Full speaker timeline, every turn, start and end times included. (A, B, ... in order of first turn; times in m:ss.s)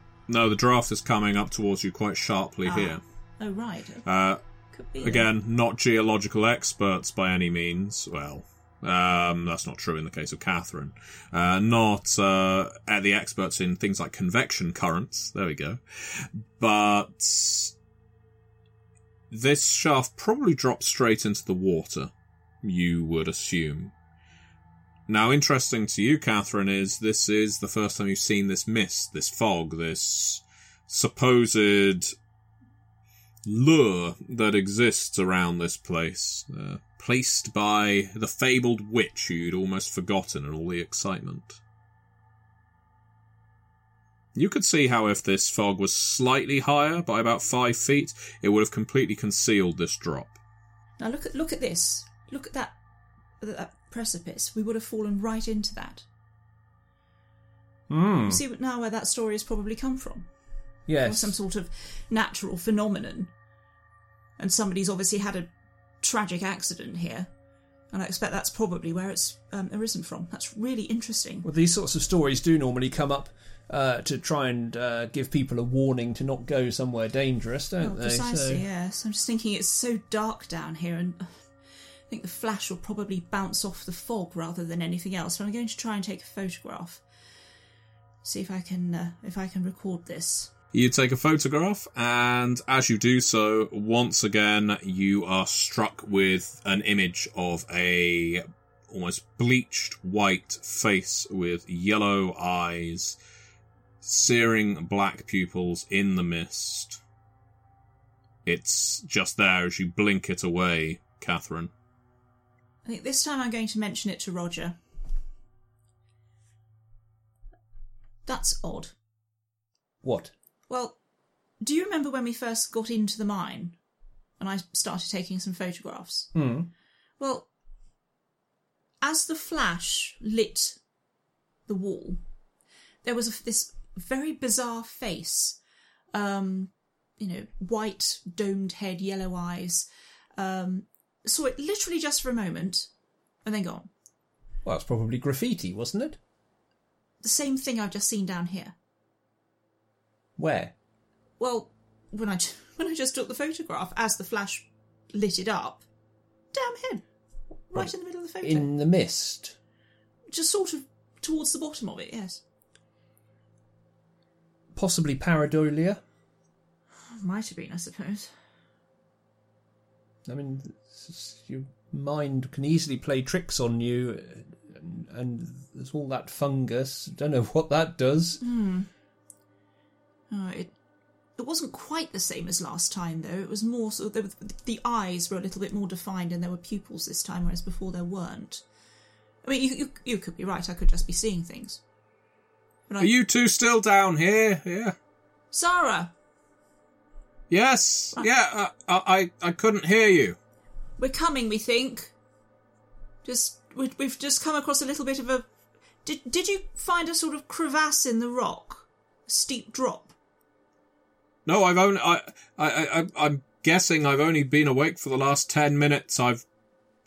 0:00.3-0:03.0 A
0:02.7-0:04.1 B
0:04.0-0:04.4 A
0:04.7-0:05.3 B
0:05.0-0:17.7 A
0:19.3-0:22.1 A
0:22.6-0:23.9 A
0:25.1-0:32.1 A
0:33.4-0:41.6 A
0:44.4-0:50.4 A
0:51.0-0:52.8 B
0:53.4-0:56.1 B
0:57.9-0:58.4 C
0:58.2-1:00.3 B
1:00.9-1:01.4 C
1:01.0-1:03.3 B
1:04.4-1:05.5 B
1:06.0-1:07.3 B
1:07.9-1:11.5 B
1:11.4-1:18.7 C
1:17.8-1:21.5 B
1:22.1-1:27.0 B
1:28.2-1:30.5 B
1:30.7-1:43.2 A
1:44.0-1:47.0 A
1:48.4-1:51.7 A
1:52.8-1:54.8 B
1:58.3-1:59.0 B
2:00.0-2:00.3 C
2:00.7-2:01.0 B
2:01.6-2:03.8 B
2:04.4-2:06.3 B
2:06.4-2:06.7 C
2:07.2-2:07.5 B
2:09.0-2:10.8 B
2:11.7-2:12.2 B
2:13.0-2:15.6 B
2:16.1-2:22.9 B
2:23.4-2:23.9 B
2:24.6-2:26.2 C
2:27.2-2:28.8 B
2:30.4-2:30.8 C
2:31.4-2:35.9 B
2:36.5-2:37.0 B
2:37.7-2:38.7 B
2:37.7-2:39.6 C
2:40.3-2:42.4 B
2:44.8-2:46.0 C
2:47.1-2:48.3 B
2:50.3-2:58.4 C
2:58.4-2:58.9 B
3:00.3-3:00.8 B
3:01.4-3:08.6 B
3:09.4-3:11.8 B
3:13.0-3:15.0 A
3:15.5-3:16.1 B
3:17.5-3:20.4 A
3:21.0-3:22.1 B
3:23.2-3:25.5 B
3:26.0-3:30.1 B
3:31.5-3:36.4 A